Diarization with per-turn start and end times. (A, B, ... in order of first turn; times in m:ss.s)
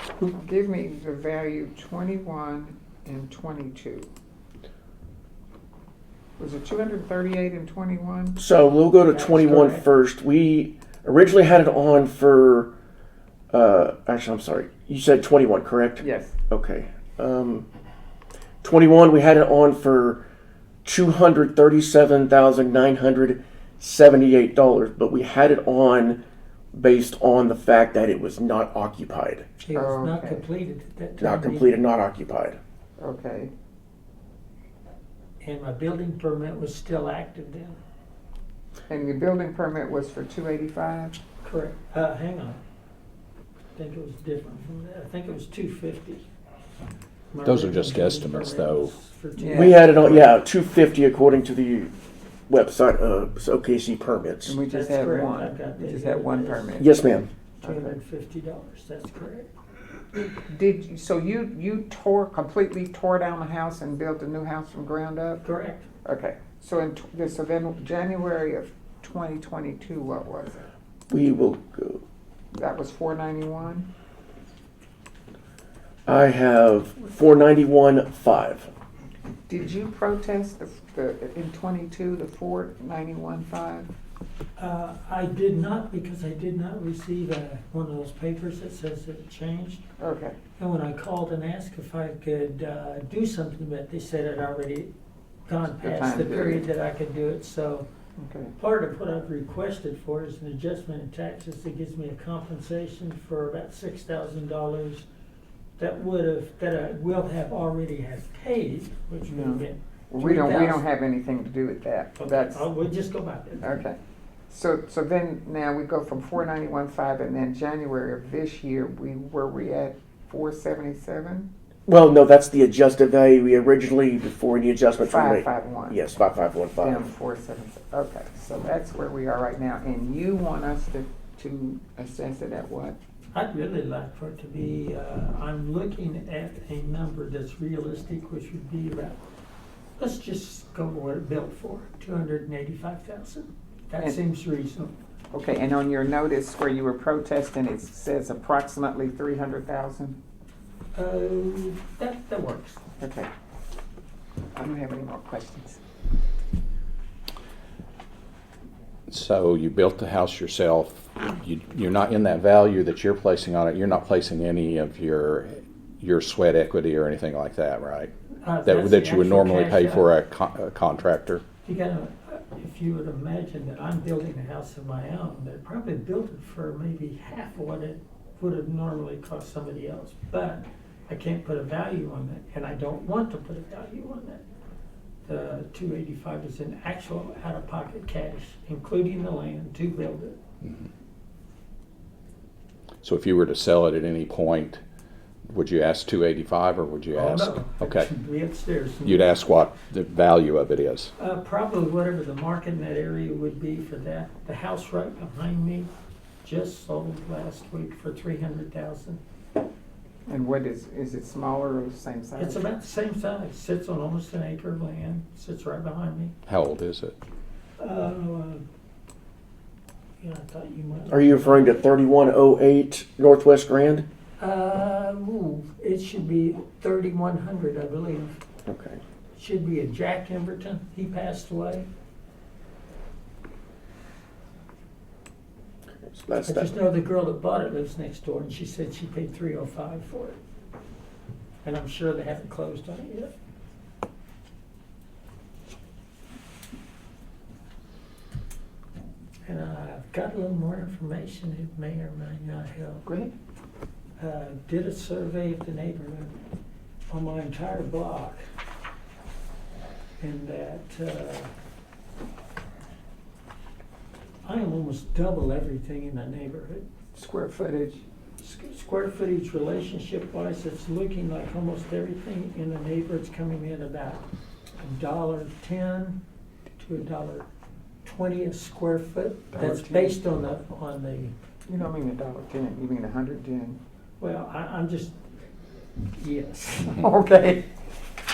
0:00.3-0:04.1 A
0:06.4-0:08.4 A
0:08.4-0:12.7 B
0:09.1-0:09.9 C
0:13.5-0:17.7 B
0:16.0-0:16.3 A
0:18.6-0:20.2 B
0:20.8-0:26.2 B
0:26.7-0:29.5 B
0:29.6-0:31.8 C
0:29.7-0:30.5 A
0:31.2-0:32.6 B
0:33.0-0:33.5 A
0:35.4-0:37.8 C
0:38.9-0:41.2 A
0:41.4-0:42.6 C
0:43.8-0:46.2 C
0:47.3-0:50.3 C
0:47.4-0:48.9 D
0:49.4-0:49.8 A
0:49.5-0:51.9 B
0:52.5-0:54.6 B
0:54.4-0:58.0 A
0:54.7-0:56.8 C
0:56.8-0:57.3 B
0:57.6-0:59.5 C
1:00.5-1:05.4 A
1:05.4-1:05.9 C
1:06.0-1:10.7 A
1:11.1-1:12.0 B
1:12.6-1:13.9 A
1:16.1-1:18.7 B
1:19.5-1:23.9 A
1:24.6-1:29.8 C
1:30.0-1:30.4 A
1:30.6-1:34.9 C
1:35.5-1:37.9 C
1:35.8-1:36.6 A
1:38.2-1:38.5 A
1:38.6-1:45.0 C
1:45.8-1:50.8 C
1:49.3-1:52.7 A
1:52.2-1:53.7 C
1:53.6-1:54.0 A
1:54.5-2:01.5 A
2:01.9-2:07.0 B
2:05.0-2:06.0 A
2:06.8-2:13.0 A
2:13.3-2:19.2 C
2:20.0-2:24.9 C
2:25.3-2:30.2 A
2:31.0-2:32.8 C
2:33.0-2:33.3 A
2:34.6-2:35.8 A
2:39.1-2:48.1 D
2:48.4-2:50.1 C
2:48.6-2:51.4 D
2:51.6-3:04.4 C
3:05.3-3:10.4 C
3:13.0-3:14.8 D
3:15.5-3:18.1 D
3:17.1-3:19.3 C
3:19.0-3:21.1 D
3:21.2-3:25.9 C
3:26.4-3:29.2 C
3:30.3-3:32.6 A
3:32.4-3:36.3 C
3:36.5-3:37.2 D
3:37.8-3:38.6 C
3:40.2-3:41.7 C
3:41.1-3:44.1 B
3:44.4-3:48.4 C
3:48.7-3:49.0 B
3:49.4-3:51.9 C
3:56.0-3:56.8 B
3:56.4-4:00.4 C
4:01.6-4:03.3 C
4:09.5-4:13.1 C
4:13.0-4:13.3 A
4:14.2-4:16.4 C
4:17.1-4:18.4 C
4:20.2-4:21.5 C
4:24.4-4:26.8 C
4:27.1-4:28.0 A
4:28.4-4:34.2 C
4:34.8-4:36.2 C
4:36.8-4:37.4 C
4:38.0-4:41.3 C
4:39.5-4:40.2 A
4:41.7-4:43.8 A
4:44.2-4:45.2 C
4:46.2-4:47.0 C
4:46.8-4:47.7 A